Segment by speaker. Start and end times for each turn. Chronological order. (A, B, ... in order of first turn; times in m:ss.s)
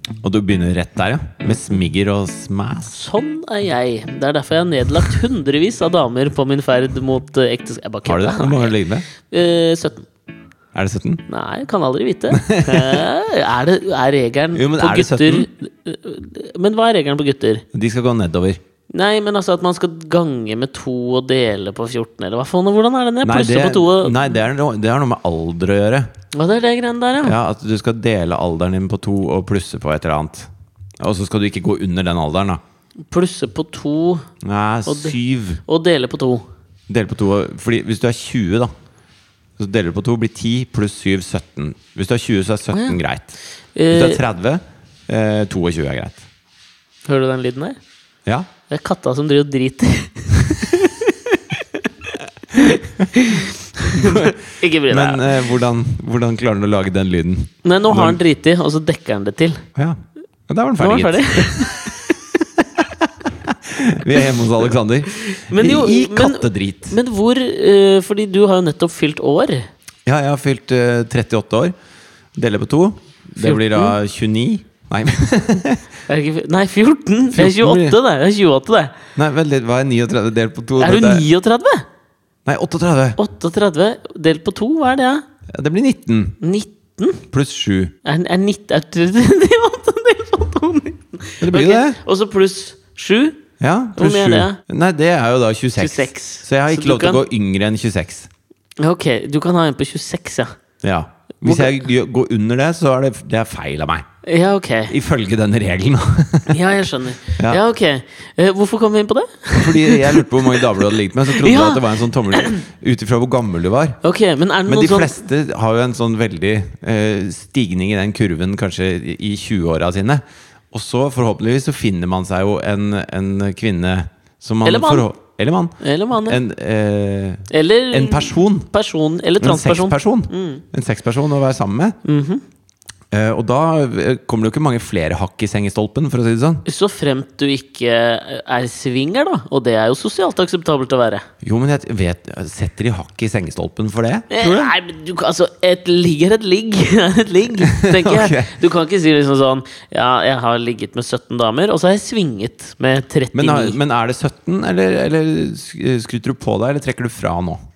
0:00.2-0:03.0 A
0:02.9-0:10.1 B
0:08.0-0:09.1 A
0:10.7-0:11.2 A
0:11.3-0:17.6 B
0:12.3-0:13.1 A
0:14.5-0:15.5 A
0:17.7-0:18.6 A
0:18.9-0:24.3 B
0:23.2-0:26.1 A
0:26.3-0:27.4 B
0:27.2-0:32.6 A
0:33.1-0:34.3 B
0:34.4-0:35.6 A
0:34.9-0:36.5 B
0:36.9-0:38.7 A
0:39.6-0:43.4 A
0:42.7-0:43.0 B
0:43.8-0:44.2 B
0:43.9-0:46.2 A
0:47.1-0:47.8 B
0:48.7-0:51.9 B
0:52.5-0:55.4 B
0:53.9-0:58.2 A
0:57.6-0:59.6 B
0:59.8-1:01.9 A
1:00.8-1:02.2 B
1:02.6-1:07.0 A
1:05.1-1:09.7 B
1:10.1-1:11.7 A
1:12.4-1:15.8 A
1:13.4-1:14.0 B
1:16.1-1:19.0 B
1:17.3-1:18.0 A
1:19.2-1:21.2 A
1:20.8-1:21.9 B
1:22.5-1:23.2 A
1:23.2-1:25.2 B
1:25.5-1:26.4 A
1:26.4-1:27.2 B
1:27.3-1:27.9 A
1:28.0-1:33.4 B
1:31.4-1:32.0 A
1:33.6-1:38.3 A
1:34.0-1:34.6 B
1:35.8-1:37.2 B
1:38.8-1:40.6 B
1:40.8-1:44.0 A
1:41.4-1:41.8 B
1:44.2-1:44.9 B
1:44.9-1:46.6 A
1:46.5-1:52.6 B
1:49.6-1:54.0 A
1:54.0-1:55.2 B
1:54.7-2:08.7 A
2:04.6-2:05.1 B
2:05.8-2:06.4 B
2:07.5-2:10.6 B
2:09.4-2:12.0 A
2:12.0-2:12.4 B
2:13.1-2:16.6 A
2:16.7-2:21.3 B
2:21.4-2:24.8 A
2:24.3-2:33.8 B
2:27.6-2:28.6 A
2:33.3-2:37.6 A